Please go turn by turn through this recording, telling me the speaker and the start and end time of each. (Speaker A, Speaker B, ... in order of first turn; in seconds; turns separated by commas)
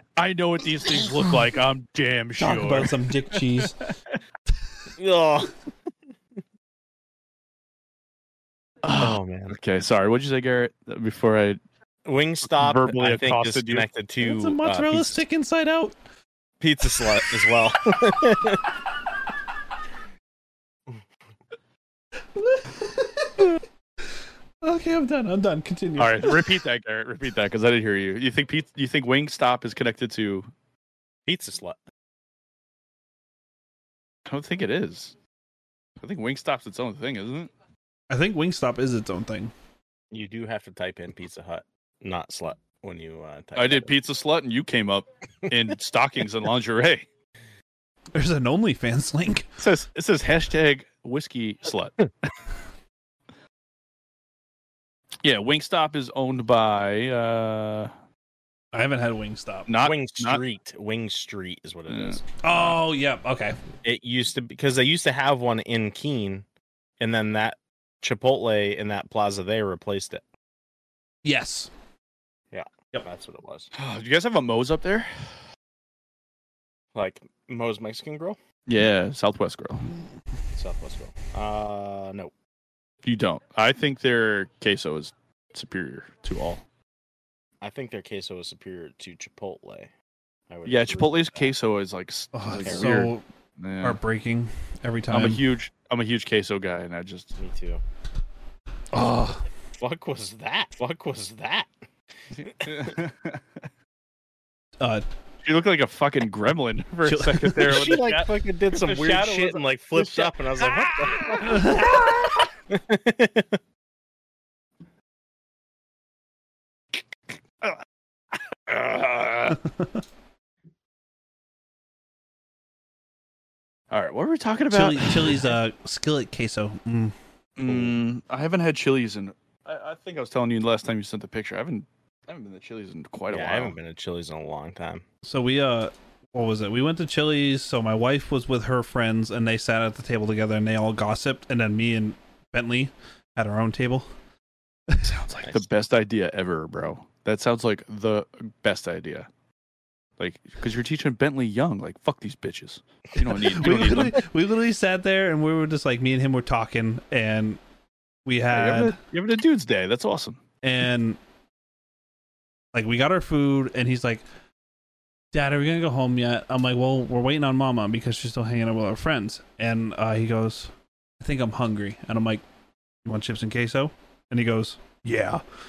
Speaker A: 0.2-3.9, Speaker B: 2.4-3.9, Speaker C: 5.0-5.6, Speaker A: 8.8-11.6, Speaker C: 9.0-9.6, Speaker C: 12.1-15.2, Speaker A: 12.4-13.9, Speaker B: 14.2-16.0, Speaker C: 16.6-18.7, Speaker B: 22.4-23.6, Speaker B: 24.6-26.5, Speaker A: 26.0-30.5, Speaker C: 31.3-31.8, Speaker A: 34.3-35.2, Speaker A: 36.0-37.5, Speaker B: 38.1-39.5, Speaker C: 40.1-43.9, Speaker A: 43.6-47.1, Speaker B: 48.1-49.5, Speaker A: 49.6-52.0, Speaker A: 55.2-57.9, Speaker B: 58.7-59.7, Speaker A: 59.7-60.4, Speaker C: 59.8-62.3, Speaker A: 61.9-62.7, Speaker B: 62.4-63.6, Speaker C: 63.8-66.5, Speaker C: 67.0-70.2, Speaker B: 71.2-71.7, Speaker C: 72.5-73.7, Speaker A: 73.7-75.1, Speaker C: 77.0-78.4, Speaker A: 78.7-79.9, Speaker C: 80.5-82.3, Speaker A: 83.0-86.6, Speaker C: 87.6-89.9, Speaker C: 90.5-91.5, Speaker A: 90.7-94.0, Speaker B: 92.3-93.2, Speaker C: 92.6-92.9, Speaker B: 93.8-95.4, Speaker A: 95.1-97.4, Speaker C: 97.4-97.8, Speaker B: 98.9-99.4, Speaker C: 99.8-101.7, Speaker C: 102.3-103.0, Speaker A: 102.4-103.4, Speaker B: 104.8-105.0, Speaker A: 105.4-112.3, Speaker B: 107.0-107.9, Speaker C: 107.6-111.9, Speaker B: 111.4-112.1, Speaker C: 112.7-113.6, Speaker A: 118.5-119.6, Speaker B: 119.5-120.0, Speaker A: 123.9-125.5, Speaker B: 124.7-127.2, Speaker A: 127.6-133.8, Speaker C: 133.3-135.1, Speaker B: 135.2-144.1, Speaker B: 144.9-145.2, Speaker A: 145.0-149.3, Speaker A: 150.2-154.2, Speaker B: 153.3-157.6, Speaker B: 158.3-159.0, Speaker A: 158.5-160.4, Speaker B: 160.6-161.2, Speaker B: 162.7-164.2, Speaker B: 165.3-172.4, Speaker B: 173.1-175.4